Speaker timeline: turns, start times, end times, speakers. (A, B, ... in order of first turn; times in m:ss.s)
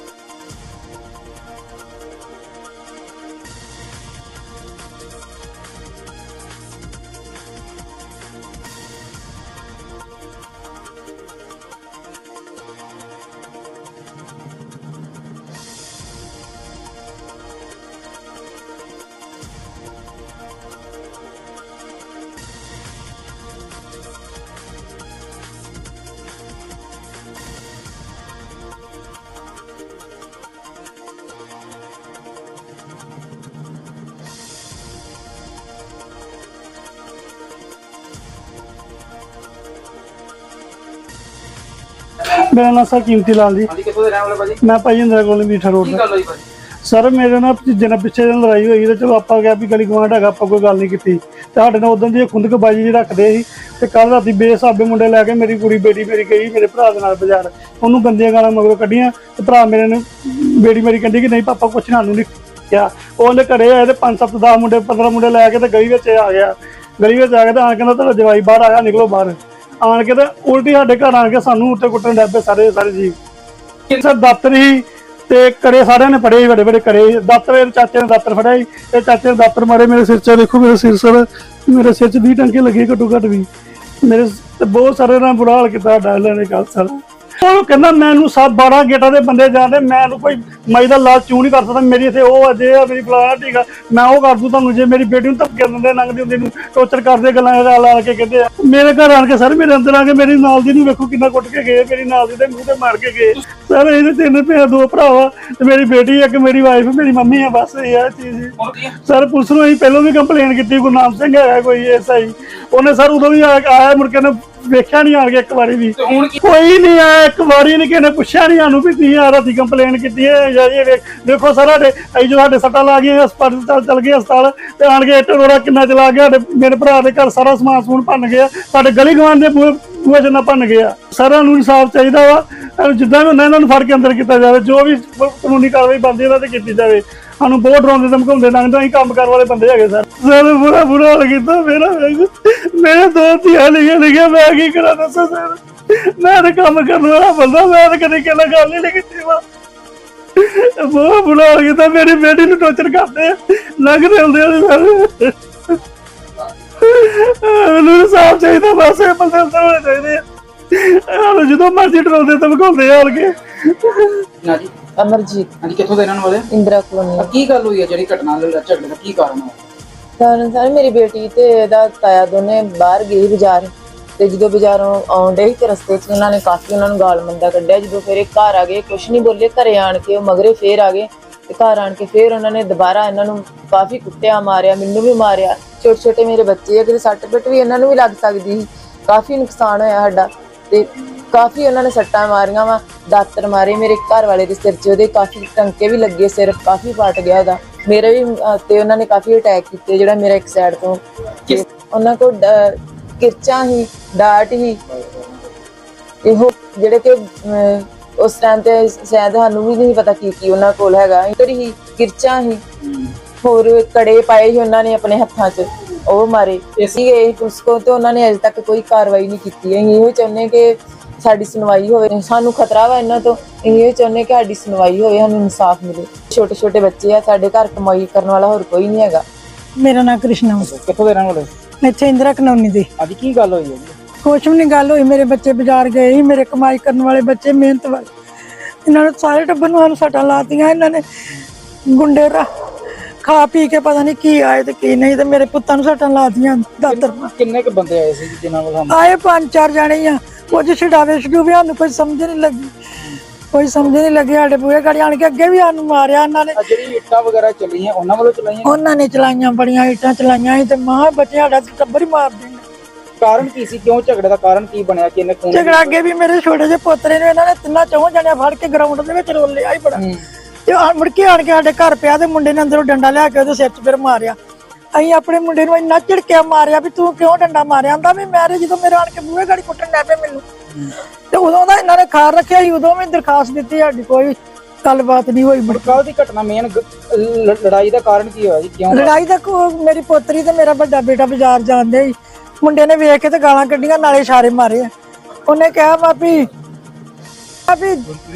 0:42.5-0:43.7 A
0:43.7-0:44.6 B
0:44.6-0:46.0 A
0:45.8-0:46.4 B
0:46.8-1:13.1 A
1:14.0-1:23.5 A
1:24.0-1:48.5 A
1:48.6-1:48.9 B
1:49.0-2:29.4 A
1:56.0-1:56.4 B
2:30.4-2:35.3 A
2:36.8-2:40.2 A
2:40.7-2:44.2 A
2:44.4-2:44.7 B
2:45.0-2:45.5 C
2:45.6-2:46.5 B
2:46.5-2:47.3 C
2:47.2-2:49.6 B
2:50.2-3:24.8 C
3:26.2-3:32.6 C
3:33.4-3:49.2 C
3:49.8-3:50.7 D
3:50.6-3:51.5 B
3:51.8-3:52.9 D
3:53.0-3:54.0 B
3:54.2-3:58.1 D
3:58.8-4:01.0 D
4:01.9-4:02.4 D
4:03.2-4:07.3 D
4:06.8-4:09.0 B
4:08.9-4:12.7 D
4:13.5-4:16.6 D
4:16.6-4:18.8 B
4:18.6-4:22.6 D
4:23.2-4:26.0 B
4:25.5-4:30.0 D
4:29.9-4:30.2 B
4:30.7-4:34.4 D
4:34.9-4:40.4 D
4:41.3-4:46.0 D
4:45.7-4:49.2 B
4:48.9-4:54.9 D
4:55.5-4:56.5 D
4:57.7-4:58.1 D